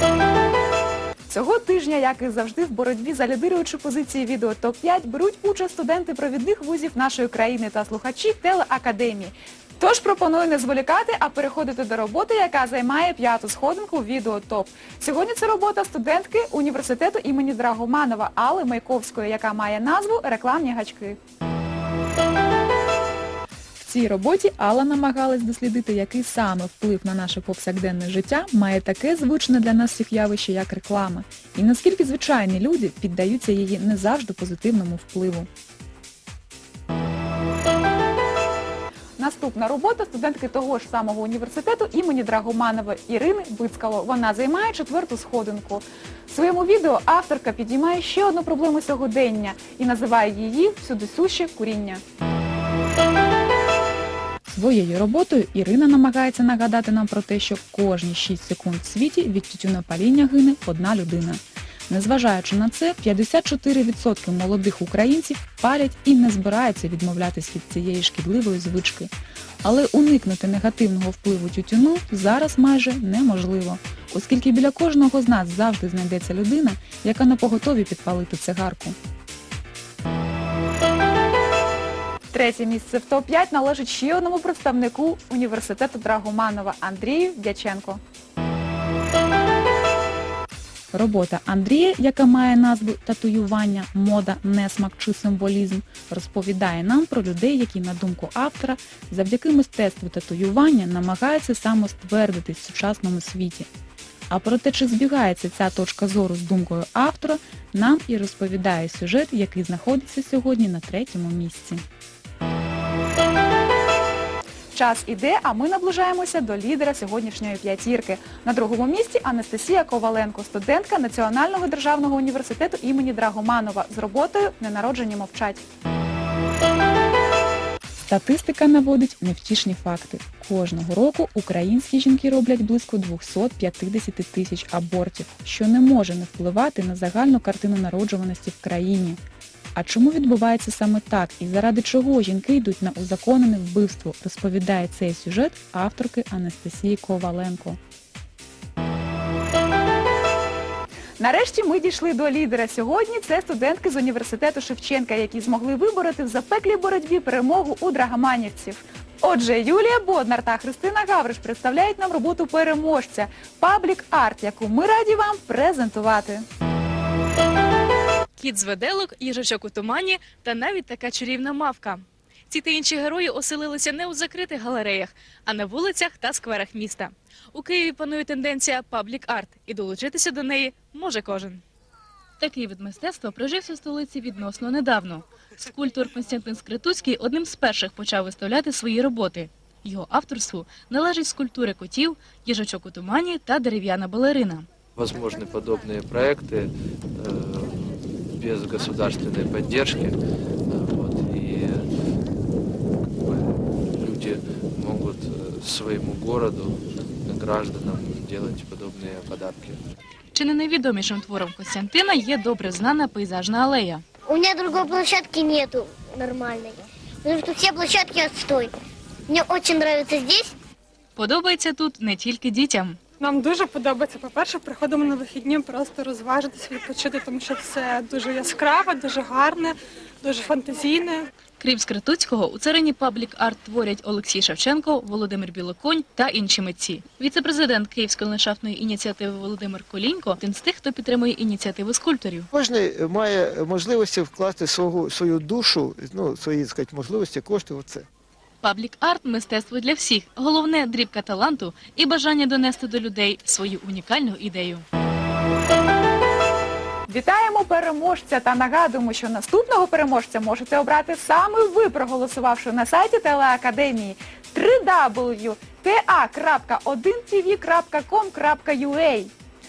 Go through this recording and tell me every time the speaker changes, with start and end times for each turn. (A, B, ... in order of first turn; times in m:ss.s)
0:01.3-0:21.2 A
0:23.8-0:35.5 A
0:39.2-0:52.0 A
0:54.5-1:09.1 A
1:09.6-1:19.0 A
1:22.3-1:28.0 A
1:30.9-1:43.7 A
1:44.3-1:51.8 A
1:54.7-2:05.6 A
2:08.0-2:19.2 A
2:19.7-2:27.8 A
2:31.2-2:46.4 A
2:48.4-3:01.6 B
3:02.4-3:14.6 B
3:15.0-3:21.9 C
3:23.1-3:29.8 C
3:30.3-3:34.0 B
3:34.3-3:38.7 D
3:39.3-3:40.5 D
3:41.2-3:43.0 B
3:43.2-3:51.3 E
3:51.6-4:02.5 B
4:02.5-4:08.0 F
4:08.6-4:14.8 B
4:17.1-4:29.3 A